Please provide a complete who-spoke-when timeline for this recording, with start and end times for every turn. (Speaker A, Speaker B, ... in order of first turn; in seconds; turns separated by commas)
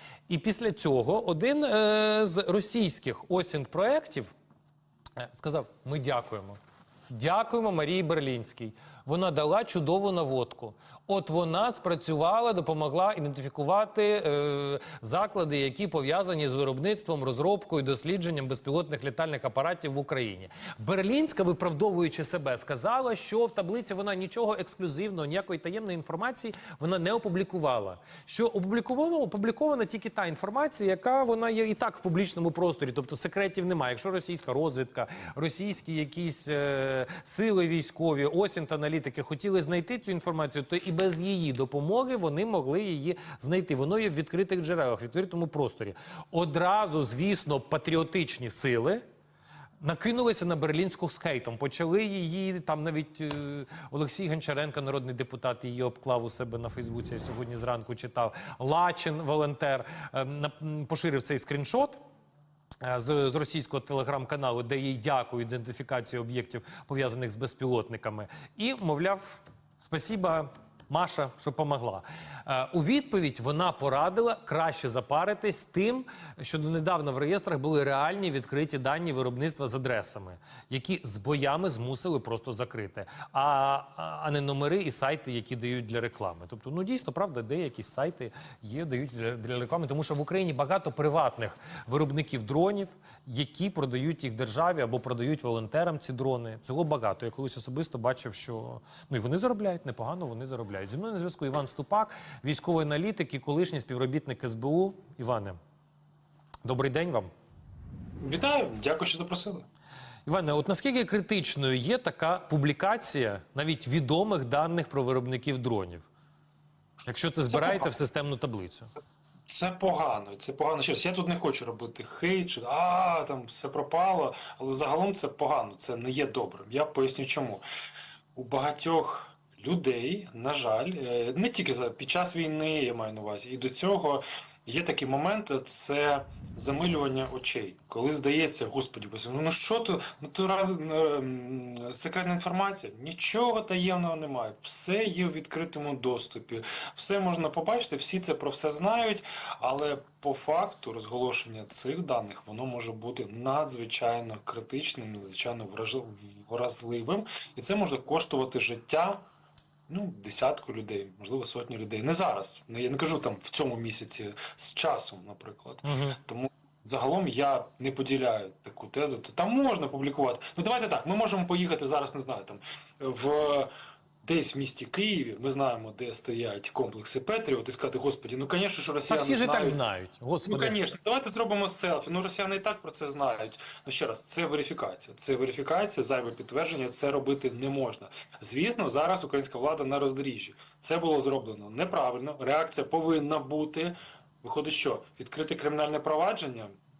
Speaker A: 0.3-4.3, Speaker A: 5.2-6.6, Speaker A: 7.1-49.0, Speaker A: 49.8-62.0, Speaker A: 62.8-105.6, Speaker A: 106.6-107.3, Speaker B: 108.2-109.7, Speaker A: 110.2-116.0, Speaker A: 117.1-118.9, Speaker B: 117.5-117.9, Speaker B: 119.5-127.6, Speaker B: 128.3-159.2, Speaker B: 159.9-173.7, Speaker A: 165.8-166.2, Speaker B: 174.2-179.8, Speaker A: 179.1-180.8, Speaker B: 180.4-196.8